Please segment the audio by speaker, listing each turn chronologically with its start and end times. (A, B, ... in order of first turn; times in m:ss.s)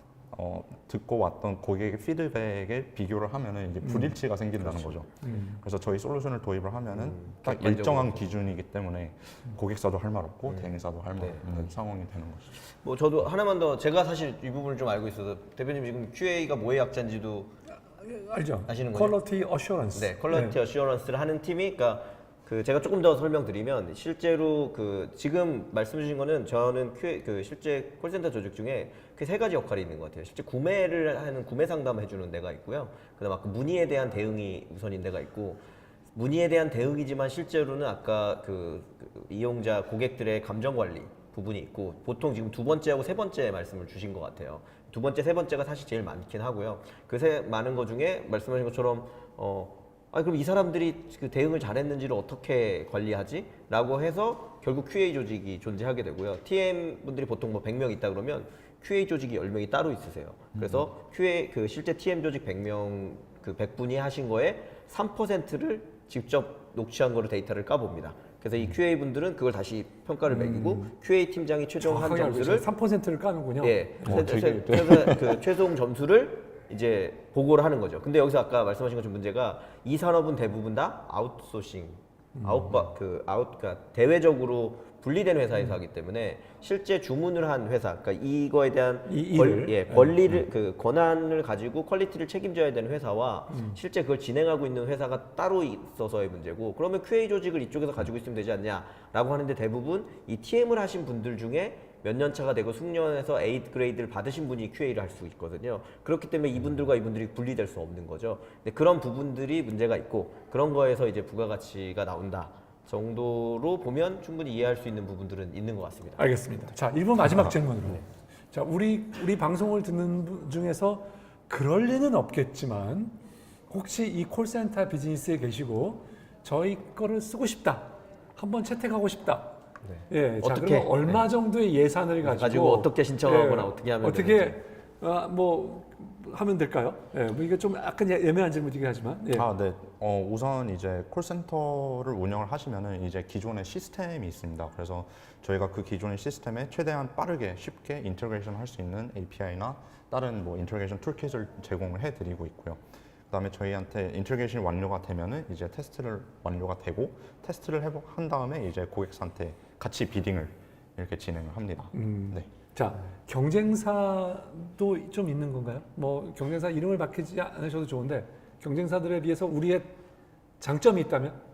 0:00.3-0:12.6 A
0:03.8-0:04.2 B
0:04.6-0:05.0 C
0:05.2-0:05.6 B
0:06.9-0:08.3 C
0:10.5-0:11.8 C
0:12.6-0:17.5 C
0:18.0-0:20.6 B
0:18.7-0:19.2 C
0:19.9-1:12.7 C
1:00.5-1:00.9 A
1:10.3-1:10.9 B
1:11.8-1:15.2 B
1:13.6-1:56.2 C
1:14.0-1:15.3 A
1:22.4-1:22.9 B
1:29.1-1:30.4 B
1:33.5-1:33.8 B
1:56.2-2:03.2 B
2:03.7-2:09.6 B
2:09.8-2:11.3 C
2:10.1-2:19.5 B
2:12.2-2:14.6 C
2:19.3-2:42.5 A
2:41.9-2:50.0 B
2:50.6-2:51.4 B